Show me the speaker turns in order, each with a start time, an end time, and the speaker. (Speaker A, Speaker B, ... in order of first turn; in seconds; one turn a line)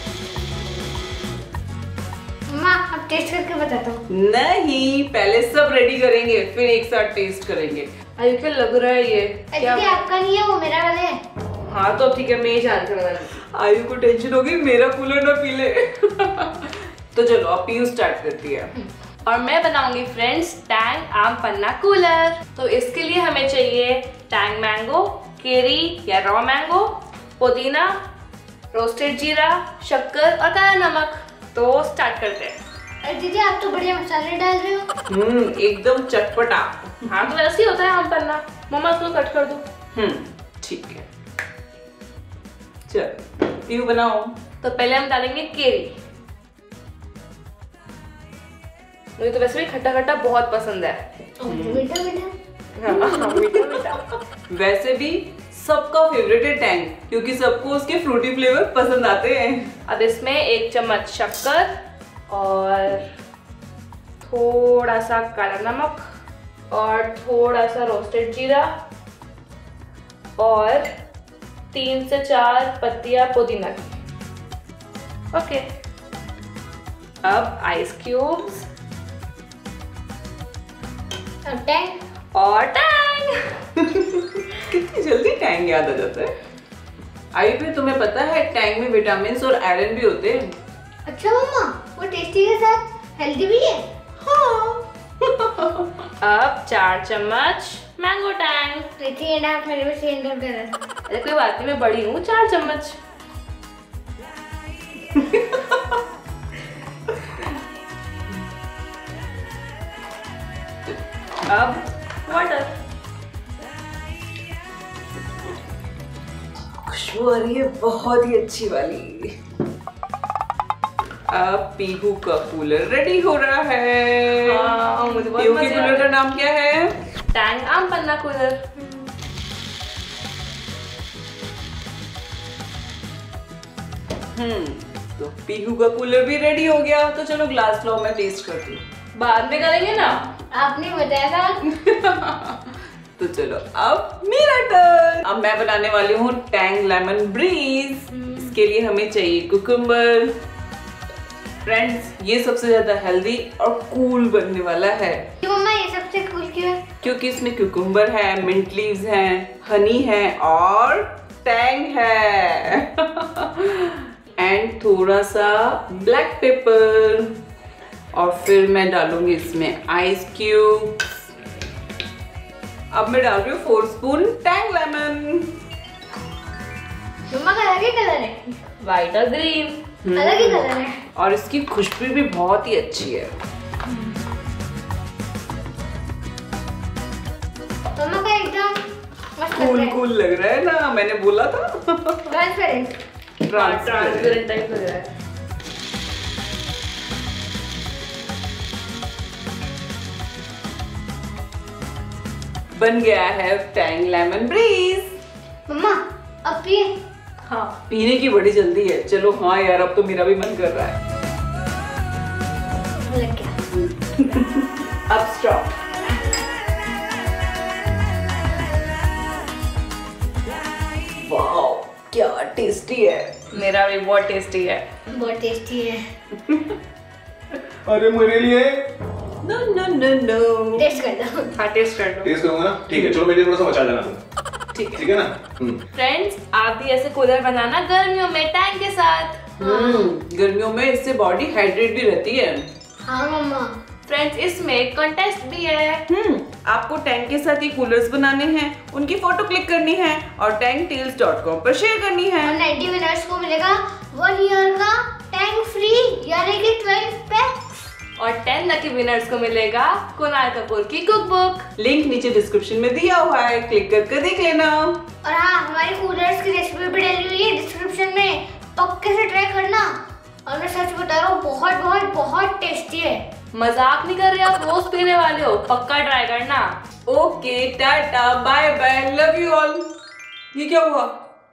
Speaker A: 2.5-4.0
Speaker B: 4.1-7.9
Speaker C: 8.2-10.0
Speaker A: 9.5-11.2
Speaker C: 11.7-13.3
Speaker B: 13.5-18.7
Speaker C: 19.3-27.9
Speaker C: 28.7-32.6
Speaker A: 33.0-34.9
Speaker B: 35.1-37.0
Speaker C: 37.1-39.6
Speaker B: 39.9-41.0
Speaker B: 42.9-44.3
Speaker C: 44.6-45.9
Speaker C: 49.2-51.0
Speaker A: 51.4-52.3
Speaker B: 51.5-51.9
Speaker C: 52.8-54.1
Speaker A: 52.9-53.4
Speaker B: 54.5-59.7
Speaker C: 59.9-61.7
Speaker C: 62.3-63.1
Speaker C: 64.2-66.0
Speaker C: 66.7-68.7
Speaker C: 70.4-70.9
Speaker C: 71.7-73.9
Speaker C: 75.3-75.7
Speaker C: 77.2-78.7
Speaker A: 81.5-82.0
Speaker C: 82.3-83.5
Speaker B: 84.0-86.3
Speaker B: 87.3-90.5
Speaker A: 91.1-93.9
Speaker B: 94.2-95.9
Speaker C: 96.2-98.9
Speaker A: 99.0-100.8
Speaker C: 101.1-103.0
Speaker B: 105.2-105.6
Speaker C: 111.5-112.7
Speaker B: 116.8-119.3
Speaker B: 121.3-124.8
Speaker C: 124.3-126.1
Speaker B: 125.4-126.9
Speaker C: 127.3-128.7
Speaker B: 134.3-138.8
Speaker C: 139.2-140.2
Speaker A: 140.5-141.7
Speaker B: 141.8-150.3
Speaker B: 151.7-155.3
Speaker A: 155.4-156.8
Speaker B: 157.0-167.3
Speaker B: 168.1-171.1
Speaker B: 172.9-175.5
Speaker A: 177.3-178.5
Speaker C: 178.8-179.8
Speaker B: 180.1-180.6
Speaker A: 180.1-181.0
Speaker B: 181.2-183.3
Speaker A: 188.0-188.7
Speaker A: 189.4-190.0
Speaker B: 189.6-192.3
Speaker A: 192.3-193.0
Speaker B: 193.4-194.4
Speaker C: 193.5-195.1
Speaker B: 202.7-205.1
Speaker A: 205.7-206.9
Speaker C: 207.4-207.8
Speaker B: 207.9-211.0
Speaker A: 213.1-213.5
Speaker B: 214.2-214.8
Speaker C: 215.1-215.7
Speaker B: 221.2-223.5
Speaker C: 223.5-224.9
Speaker A: 225.1-226.0
Speaker D: 227.9-228.8
Speaker B: 229.4-230.9
Speaker A: 230.8-231.5
Speaker C: 231.6-232.3
Speaker D: 232.2-234.2
Speaker C: 234.8-235.1
Speaker D: 234.9-235.8
Speaker C: 235.9-239.5
Speaker A: 239.6-240.1
Speaker B: 239.6-242.7
Speaker A: 243.1-243.7
Speaker C: 244.1-246.0
Speaker B: 246.1-252.6
Speaker A: 252.4-257.6
Speaker C: 258.2-261.7
Speaker B: 261.8-265.0
Speaker A: 265.2-269.9
Speaker A: 270.5-273.2
Speaker C: 273.5-276.7
Speaker B: 277.1-279.9
Speaker B: 280.5-281.2